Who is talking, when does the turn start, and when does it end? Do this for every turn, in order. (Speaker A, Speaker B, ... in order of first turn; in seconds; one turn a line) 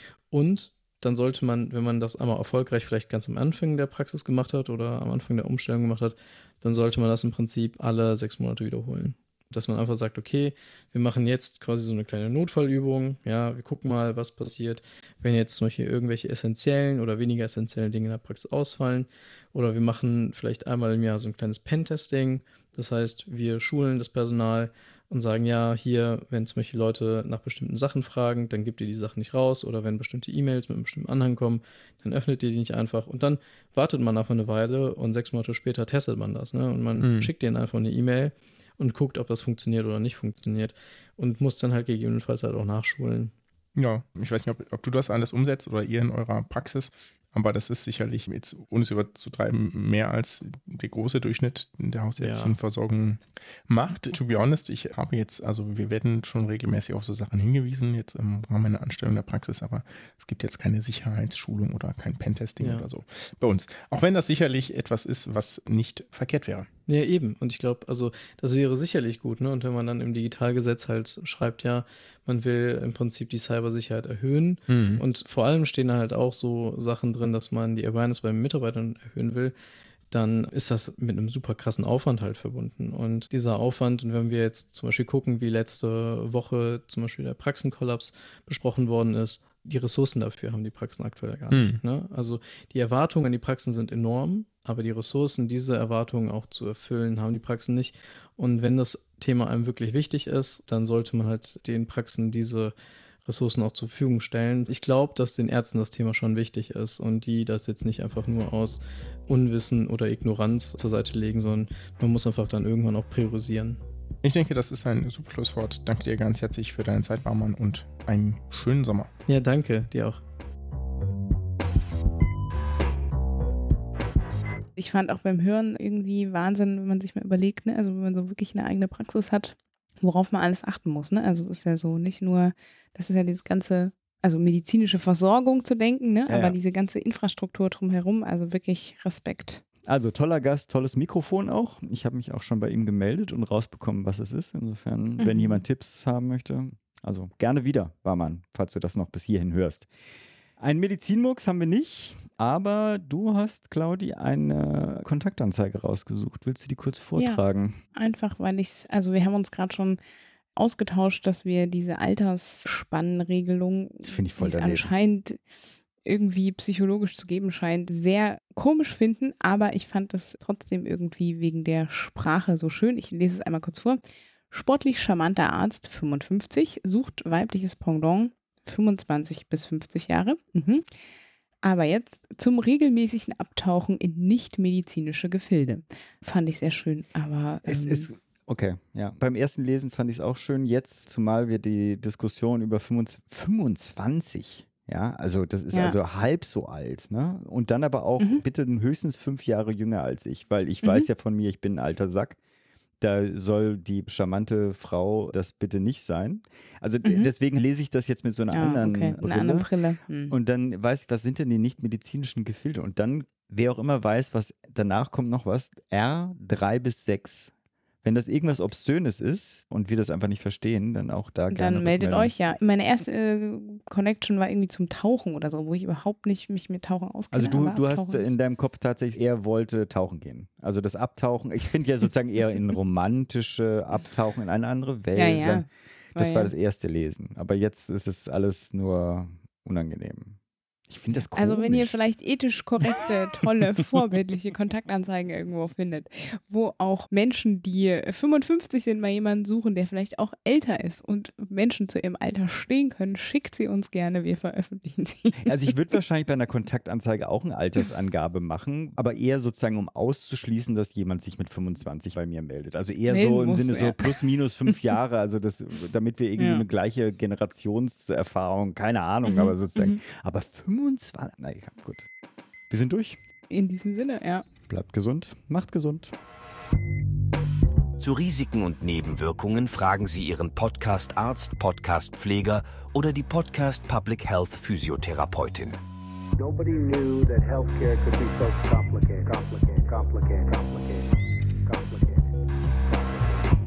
Speaker A: 0.3-43.3
Speaker B: 37.0-37.3
Speaker B: 43.8-66.7
Speaker A: 52.2-52.6
Speaker A: 62.6-62.9
Speaker A: 66.9-79.5
Speaker B: 74.7-75.0
Speaker A: 80.1-102.7
Speaker B: 91.5-91.8
Speaker A: 103.2-113.8
Speaker B: 114.2-119.1
Speaker A: 119.3-120.2
Speaker C: 124.8-139.6
Speaker D: 136.3-136.6
Speaker D: 139.8-149.9
Speaker C: 145.2-145.6
Speaker D: 150.6-157.8
Speaker C: 157.2-157.4
Speaker C: 157.9-160.0
Speaker C: 160.6-165.4
Speaker D: 164.0-164.9
Speaker C: 166.0-180.8
Speaker C: 181.6-188.1
Speaker D: 187.7-202.4
Speaker C: 195.7-196.0
Speaker D: 203.0-209.7
Speaker C: 208.5-210.3
Speaker D: 210.3-217.5
Speaker D: 218.0-222.3
Speaker C: 221.5-228.3
Speaker D: 227.3-242.0
Speaker C: 235.1-236.5
Speaker C: 241.3-255.7
Speaker D: 255.4-272.1
Speaker C: 263.1-264.7
Speaker C: 266.4-266.6
Speaker C: 269.2-270.0
Speaker D: 272.7-273.2
Speaker C: 273.5-274.4
Speaker D: 274.7-276.1
Speaker E: 278.0-285.8
Speaker E: 286.4-291.1
Speaker E: 291.6-292.3
Speaker E: 292.9-293.5